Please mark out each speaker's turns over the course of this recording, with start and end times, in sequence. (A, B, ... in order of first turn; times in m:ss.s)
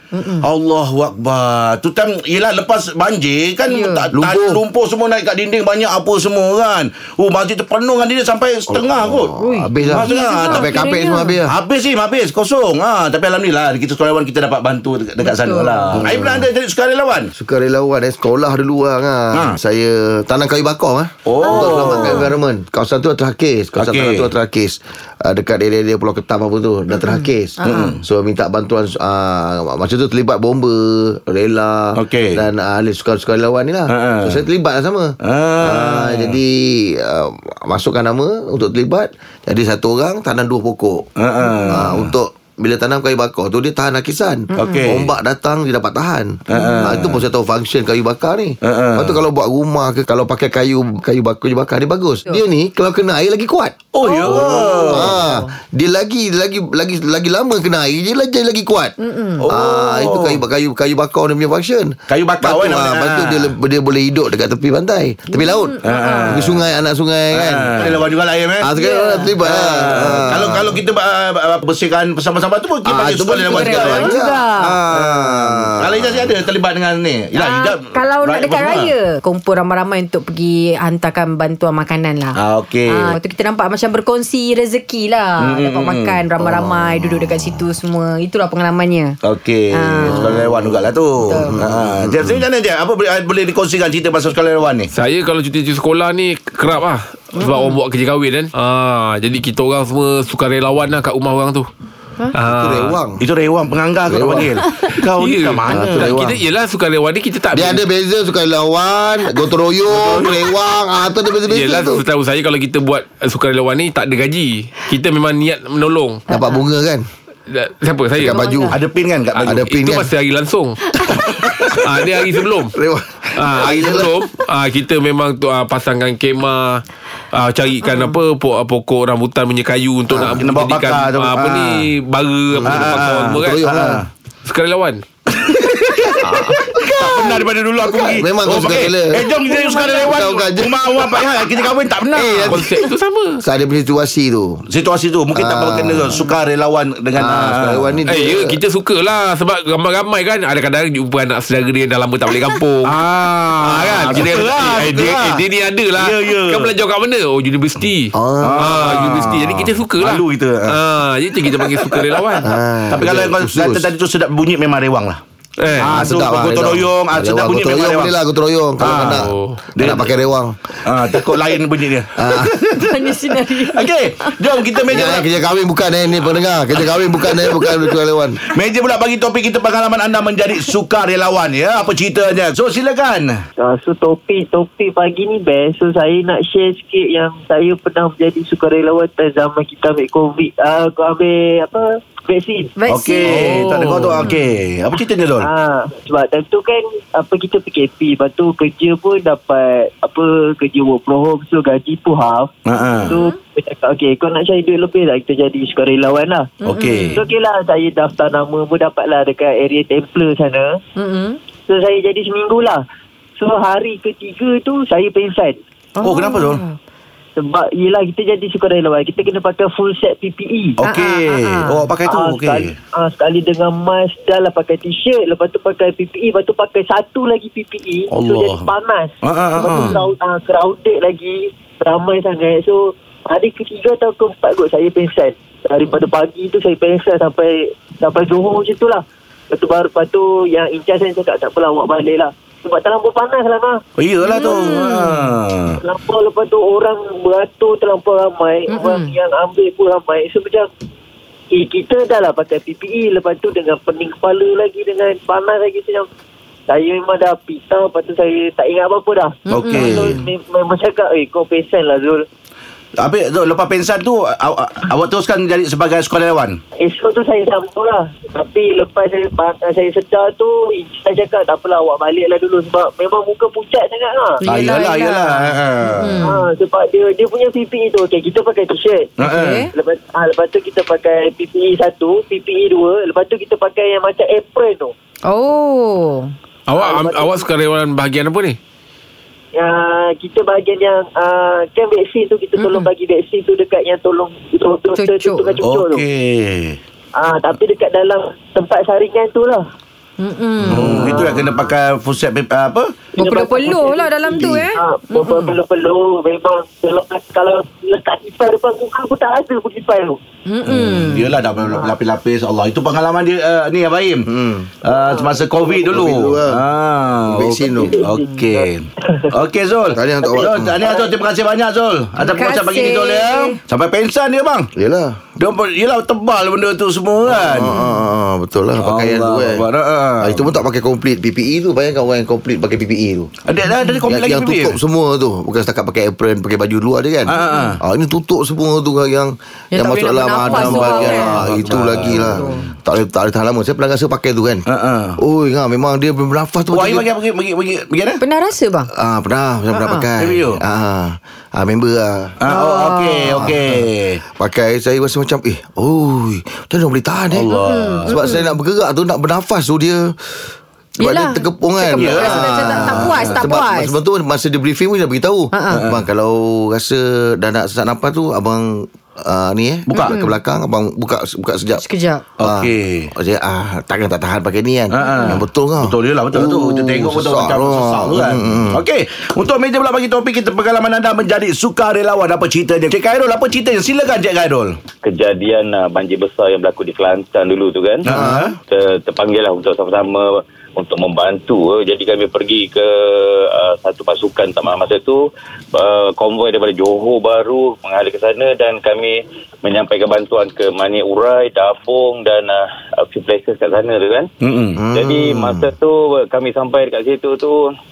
0:00.1-0:00.5 A
0:00.4-0:17.3 B
0:03.6-0:04.1 A
0:04.1-0:04.6 C
0:08.7-0:11.5 C
0:09.4-0:11.4 A
0:15.2-0:16.1 A
0:15.9-0:16.5 C
0:17.4-0:41.1 C
0:21.3-0:22.3 B
0:21.4-0:22.3 A
0:23.8-0:24.3 B
0:26.9-0:28.0 A
0:27.7-0:28.0 B
0:32.0-0:32.4 B
0:33.9-0:34.4 B
0:35.2-0:36.4 B
0:41.2-0:42.1 B
0:41.5-0:41.8 A
0:41.7-0:53.8 C
0:44.5-0:45.0 A
0:44.6-0:45.1 B
0:46.5-0:47.2 B
0:46.6-0:46.9 A
0:48.6-0:49.2 B
0:53.9-0:55.2 B
0:54.0-0:55.5 A
0:54.3-0:59.0 C
0:59.0-0:59.5 A
0:59.4-1:00.4 B
0:59.5-1:05.8 C
1:02.1-1:03.5 B
1:05.3-1:06.4 A
1:05.8-1:06.7 B
1:06.3-1:08.0 C
1:07.3-1:08.7 B
1:08.6-1:10.8 C
1:08.8-1:09.3 A
1:09.3-1:14.2 B
1:12.8-1:16.3 C
1:13.1-1:14.8 A
1:14.7-1:18.9 B
1:17.3-1:29.2 A
1:22.4-1:23.2 B
1:25.4-1:26.2 B
1:26.5-1:27.5 C
1:29.2-1:34.9 B
1:29.7-1:30.7 A
1:30.1-1:30.5 C
1:31.2-1:31.6 A
1:31.4-1:32.4 C
1:34.9-1:41.7 D
1:37.4-1:37.8 A
1:42.3-1:43.0 D
1:42.4-1:43.2 C
1:43.2-1:46.2 B
1:44.1-1:44.6 C
1:44.9-1:47.8 D
1:45.7-1:46.4 C
1:47.5-1:52.0 C
1:50.0-1:50.3 B
1:51.5-1:56.2 D
1:56.3-1:57.0 C
1:56.3-1:56.6 A
1:57.5-1:58.6 D
1:58.2-1:58.7 C
1:58.2-1:58.8 A
1:58.7-1:59.6 B
1:59.4-2:01.0 D
1:59.4-2:00.1 C
2:01.2-2:01.7 B
2:01.7-2:02.8 D
2:02.7-2:04.1 C
2:03.4-2:13.6 D
2:03.7-2:04.0 B
2:07.8-2:08.1 A
2:10.2-2:11.9 B
2:12.6-2:14.0 C
2:12.6-2:14.1 B
2:14.4-2:15.1 D
2:15.3-2:22.8 B
2:16.5-2:17.1 C
2:17.8-2:21.3 C
2:19.6-2:20.0 A
2:22.1-2:23.4 D
2:23.4-2:24.6 C
2:24.7-2:28.0 B
2:25.3-2:26.3 C
2:27.2-2:28.6 C
2:28.1-2:42.5 D
2:32.8-2:36.7 B
2:38.1-2:39.2 C
2:38.4-2:40.8 B
2:41.5-2:42.3 B
2:42.5-2:43.8 C
2:42.9-2:48.1 B
2:45.6-2:46.1 D
2:45.8-2:50.6 C
2:48.8-2:50.1 B
2:48.9-2:49.6 D
2:50.8-2:53.0 B
2:52.2-2:52.6 C
2:52.8-2:55.1 A
2:53.6-2:55.3 B
2:54.9-2:58.4 C
2:56.9-2:57.9 B
2:58.5-3:03.4 B
3:03.6-3:14.3 E
3:12.8-3:14.4 A
3:12.9-3:15.5 B
3:15.4-3:26.5 E
3:22.7-3:23.2 B
3:23.1-3:23.3 A
3:26.6-3:27.2 B
3:26.6-3:27.2 A
3:27.1-3:30.8 E
3:31.0-3:31.4 A
3:31.7-3:32.8 E
3:33.4-3:35.6 E
3:36.0-3:36.8 A
3:36.0-3:36.6 B
3:37.4-3:40.8 E
3:40.8-3:42.8 B
3:40.9-3:41.9 A
3:42.0-4:03.8 E
3:48.1-3:48.7 B
3:49.2-3:50.0 B
3:49.7-3:50.0 A
4:04.0-4:05.8 B
4:04.2-4:05.3 A
4:04.4-4:04.6 E
4:05.8-4:10.7 E
4:08.7-4:09.2 A
4:11.5-4:16.1 E
4:16.7-4:22.3 E
4:19.5-4:20.2 B
4:19.5-4:20.2 A
4:23.0-4:26.6 B
4:26.8-4:34.4 E
4:34.4-4:36.4 A
4:34.5-4:36.2 B
4:36.2-4:39.2 E
4:39.2-4:39.6 B
4:39.3-4:39.7 A
4:39.7-4:44.9 E
4:45.3-4:46.3 A
4:46.7-4:48.6 D
4:46.8-4:47.5 E
4:49.6-4:56.0 E
4:52.6-4:52.9 A
4:55.0-4:55.6 A
4:55.6-4:56.8 B
4:57.2-4:59.6 E
5:00.2-5:01.3 A
5:00.7-5:03.0 B
5:00.8-5:01.6 E
5:03.1-5:10.2 E
5:03.2-5:05.6 A
5:10.5-5:11.3 A
5:10.6-5:14.3 B
5:14.3-5:14.7 C
5:14.8-5:24.7 B
5:14.9-5:15.9 E
5:15.7-5:16.6 C
5:17.3-5:18.0 C
5:17.7-5:19.3 E
5:19.9-5:20.8 C
5:22.2-5:23.6 A
5:24.8-5:25.2 C
5:25.4-5:27.8 B
5:27.3-5:29.6 C
5:27.6-5:28.0 A
5:28.8-5:30.6 B
5:30.2-5:33.3 C
5:33.4-5:34.8 B
5:33.7-5:34.1 A
5:34.1-5:44.6 C
5:37.3-5:37.8 B
5:37.5-5:37.8 A
5:39.7-5:42.7 A
5:40.4-5:42.7 B
5:44.7-5:45.2 B
5:45.2-5:47.1 C
5:46.7-5:48.2 B
5:48.2-5:48.9 A
5:48.9-5:52.4 C
5:49.8-5:50.1 A
5:50.2-5:50.6 B
5:52.4-5:54.2 B
5:52.5-5:53.5 A
5:53.4-5:53.8 C
5:54.4-6:00.2 C
5:57.3-5:58.3 B
5:57.5-5:58.5 A
6:01.0-6:04.0 A
6:01.0-6:11.8 C
6:01.9-6:03.5 B
6:05.5-6:05.9 A
6:05.7-6:06.0 B
6:09.9-6:10.2 B
6:10.0-6:10.4 A
6:11.8-6:12.3 A
6:12.4-6:13.1 B
6:12.4-6:18.8 C
6:14.9-6:24.8 B
6:15.0-6:15.4 A
6:25.0-6:28.1 F
6:28.0-6:28.6 B
6:28.1-6:28.6 C
6:28.7-6:44.3 F
6:44.4-6:44.8 B
6:44.8-6:45.7 C
6:44.9-6:47.7 F